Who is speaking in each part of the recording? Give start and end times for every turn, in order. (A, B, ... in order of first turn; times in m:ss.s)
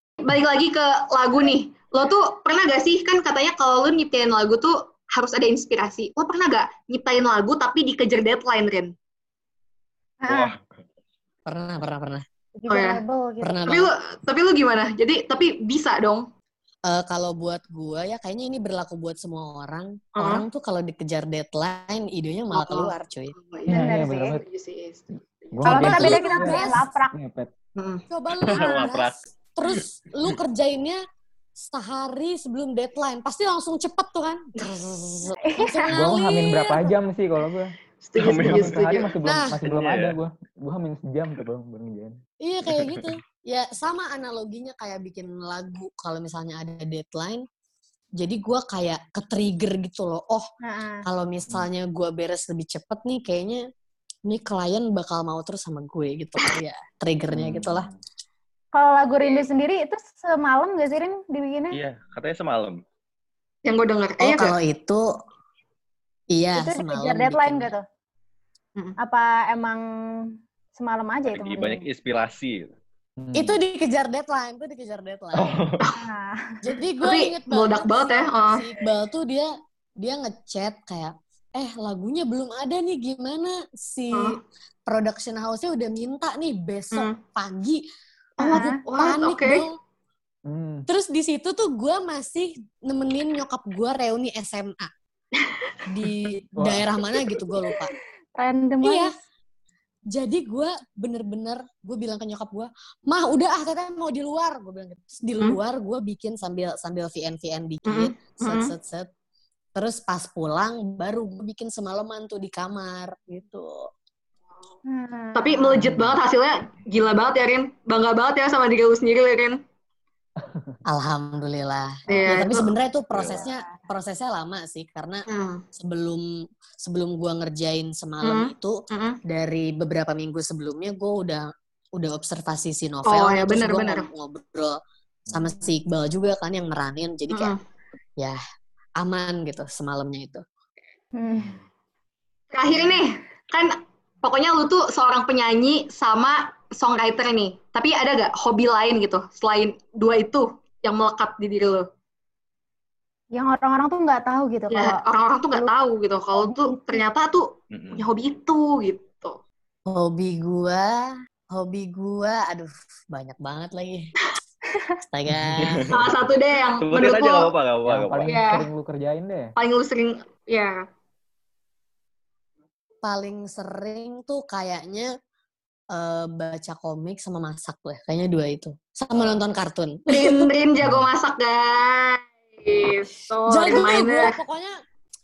0:00.2-0:08.9 A
0:10.3-0:10.6 B
0:11.4-0:12.2 C
0:12.6-0:13.6 D
0:12.7-0:13.0 A
0:13.4-0:13.9 C
0:13.6-0:16.3 A
0:16.8-0:23.3 C
0:20.2-0:20.4 A
0:22.5-0:26.6 A
0:23.7-0:24.4 E
0:23.7-0:24.4 D
0:25.5-0:27.5 E
0:25.7-0:27.1 D
0:27.8-0:28.0 A
0:28.1-0:31.0 C
0:28.4-0:29.2 B
0:28.6-0:28.9 D
0:29.7-0:30.4 B
0:31.6-0:36.2 C
0:35.4-0:35.9 D
0:35.9-0:37.7 E
0:38.0-0:39.1 A
0:38.2-0:38.9 B
0:38.4-0:42.2 E
0:39.2-0:39.6 C
0:39.6-0:40.2 B
0:42.4-0:47.4 C
0:42.6-0:43.1 B
0:48.2-0:50.5 C
0:50.6-0:51.0 D
0:51.0-0:53.6 C
0:54.3-0:57.9 C
0:57.3-0:58.0 E
0:58.7-1:01.8 D
0:59.2-0:59.5 A
1:01.7-1:02.8 B
1:03.6-1:04.6 A
1:04.2-1:05.0 C
1:06.3-1:07.7 C
1:06.6-1:07.8 D
1:09.0-1:11.8 D
1:11.3-1:12.7 B
1:13.2-1:13.6 E
1:13.3-1:15.7 C
1:15.4-1:15.8 B
1:16.0-1:16.6 D
1:16.6-1:27.8 C
1:17.0-1:18.7 A
1:24.1-1:24.4 A
1:26.9-1:27.2 A
1:28.4-1:28.7 D
1:28.4-1:29.7 A
1:28.4-1:29.7 C
1:30.4-1:30.8 E
1:30.9-1:34.9 C
1:35.4-1:35.7 A
1:35.8-1:37.9 C
1:36.6-1:36.9 E
1:37.2-1:37.5 A
1:38.4-1:39.1 D
1:38.8-1:39.1 C
1:40.1-1:49.1 C
1:47.8-1:48.7 A
1:49.7-1:53.9 C
1:54.9-1:55.8 D
1:55.3-1:59.6 A
1:55.7-1:56.2 E
2:00.4-2:00.8 E
2:00.9-2:05.2 C
2:02.1-2:02.4 B
2:02.2-2:02.7 A
2:03.1-2:03.4 B
2:03.3-2:03.7 D
2:05.3-2:05.6 A
2:05.8-2:06.3 C
2:06.8-2:08.7 C
2:08.2-2:09.2 A
2:09.3-2:14.8 C
2:13.0-2:14.1 A
2:15.3-2:15.8 E
2:15.3-2:17.5 C
2:17.3-2:17.6 A
2:19.0-2:20.4 C
2:21.2-2:21.6 D
2:22.5-2:31.9 A
2:22.7-2:23.0 B
2:33.3-2:35.0 D
2:34.7-2:39.4 A
2:36.3-2:37.0 D
2:37.7-2:38.1 B
2:39.9-2:41.0 C
2:41.5-2:44.1 C
2:45.1-2:46.0 C
2:45.3-2:45.6 E
2:45.6-2:46.2 B
2:45.9-2:47.5 A
2:46.8-2:48.4 B
2:47.9-2:49.5 E
2:48.2-2:48.7 A
2:49.6-2:50.8 A
2:53.0-2:55.1 C
2:55.9-3:00.5 C
3:00.1-3:04.4 A
3:00.8-3:01.1 E
3:03.5-3:04.7 C